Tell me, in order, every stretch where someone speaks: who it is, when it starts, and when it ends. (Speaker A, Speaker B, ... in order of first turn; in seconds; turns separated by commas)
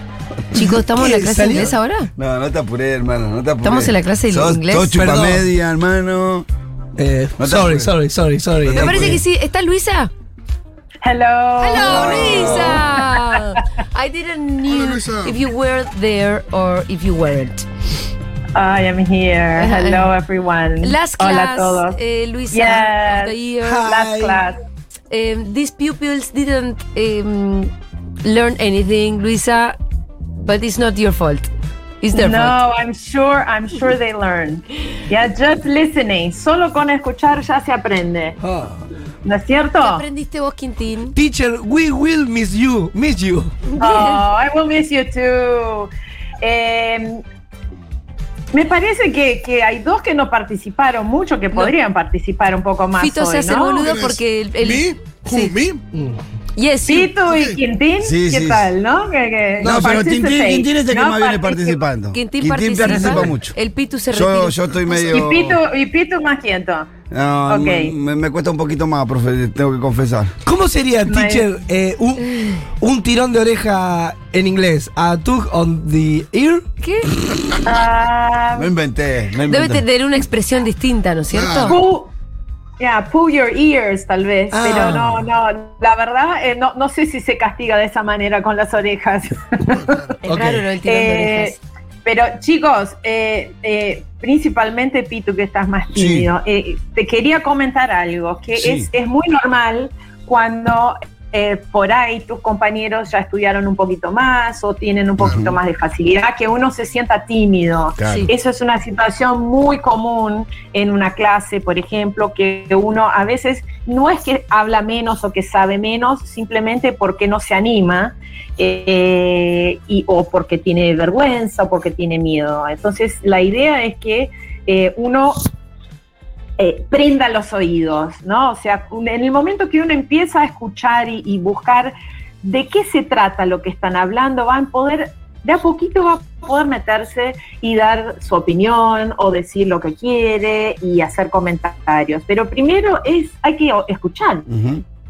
Speaker A: 0.5-2.1, Speaker B: 0.6-1.7, Speaker C: 2.2-6.5, Speaker A: 3.6-4.9, Speaker B: 4.9-5.4, Speaker B: 7.0-9.1, Speaker C: 7.4-7.9, Speaker C: 8.6-9.2, Speaker A: 8.7-10.1, Speaker D: 11.0-13.1, Speaker A: 11.6-17.6, Speaker C: 11.8-12.8, Speaker E: 14.6-15.4, Speaker D: 18.5-22.0, Speaker A: 19.6-20.1, Speaker A: 20.8-23.8, Speaker D: 22.5-24.6, Speaker B: 23.6-24.4, Speaker A: 25.1-27.7, Speaker A: 28.2-29.8, Speaker A: 30.4-31.5, Speaker A: 32.0-32.6, Speaker D: 32.1-38.4, Speaker B: 38.4-38.8, Speaker D: 39.2-40.0, Speaker A: 39.8-41.1, Speaker B: 41.1-43.6, Speaker A: 43.8-44.2, Speaker D: 43.8-45.9, Speaker D: 46.4-47.2, Speaker D: 48.5-53.9, Speaker A: 53.0-55.5, Speaker E: 53.8-55.8, Speaker B: 55.9-56.2, Speaker A: 56.5-57.1, Speaker D: 56.9-61.8, Speaker E: 57.3-57.6, Speaker C: 58.0-58.7, Speaker C: 59.6-63.5, Speaker A: 62.1-64.6, Speaker C: 64.1-65.6, Speaker D: 64.9-66.9, Speaker C: 67.1-70.3, Speaker D: 67.5-67.9, Speaker B: 70.5-76.6, Speaker D: 71.0-71.5, Speaker A: 76.8-77.1, Speaker D: 77.5-78.7, Speaker C: 78.5-79.8, Speaker A: 79.5-81.8, Speaker E: 81.3-81.7, Speaker D: 81.7-82.1, Speaker D: 82.8-90.2, Speaker B: 84.5-85.2, Speaker B: 90.2-90.6, Speaker A: 90.2-91.6, Speaker D: 90.8-125.4, Speaker C: 95.9-96.3, Speaker C: 98.6-98.9, Speaker C: 105.2-105.5, Speaker C: 108.0-108.3, Speaker A: 108.0-108.3, Speaker D: 126.6-144.5, Speaker C: 144.5-144.8